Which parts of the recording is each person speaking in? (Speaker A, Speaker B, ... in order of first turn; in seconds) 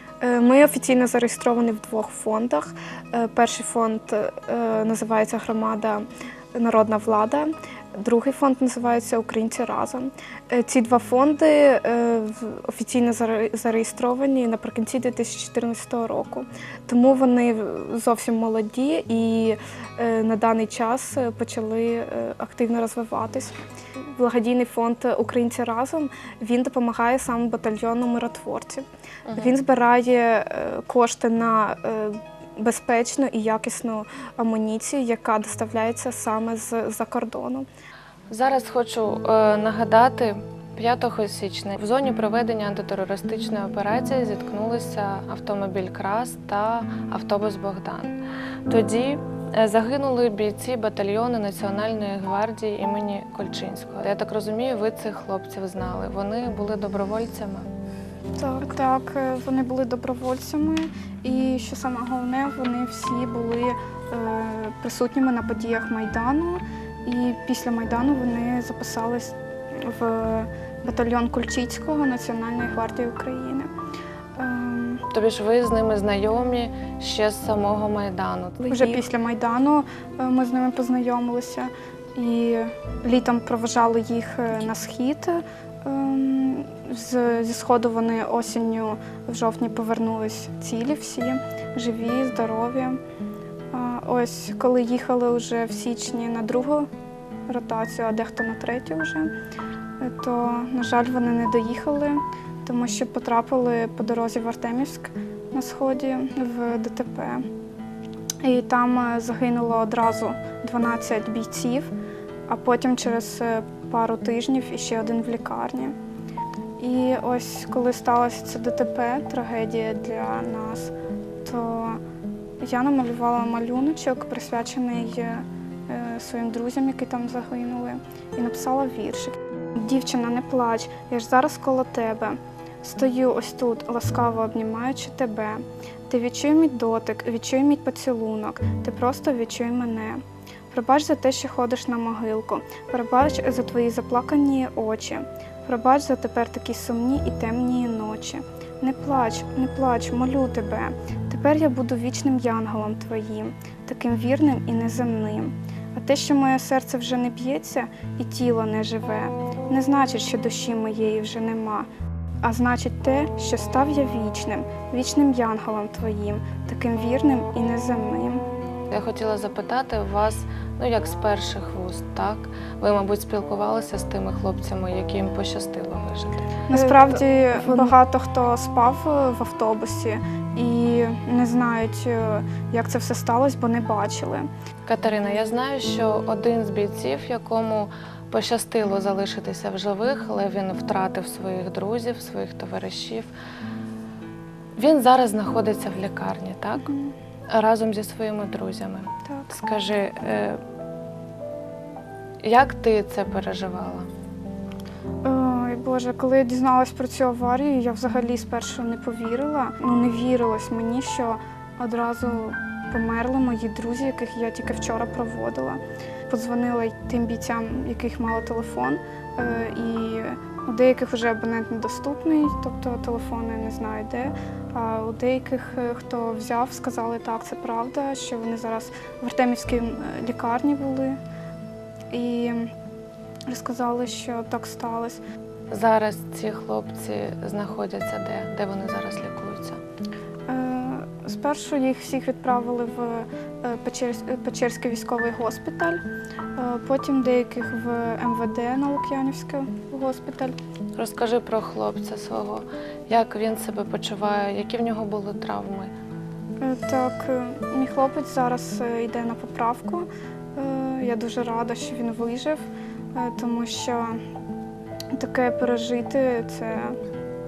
Speaker A: 0.2-37.7, 78.6-79.0, 176.7-177.9
Speaker B: 29.3-29.5, 38.3-57.7, 75.1-78.6, 168.9-176.4, 184.9-193.3, 194.8-196.9, 197.5-200.6, 202.4-204.1, 235.7-239.8, 251.0-255.9
Speaker C: 58.5-73.7, 74.4-75.0, 78.7-93.0, 93.7-96.9, 97.5-99.3, 100.0-107.5, 108.4-111.9, 112.5-116.0, 116.8-122.0, 122.6-161.9, 162.4-168.4, 176.7-184.5, 196.8-197.1, 205.2-231.2, 232.1-232.7, 233.5-235.2, 240.5-246.0, 246.6-250.6, 256.6-264.2, 265.1-267.0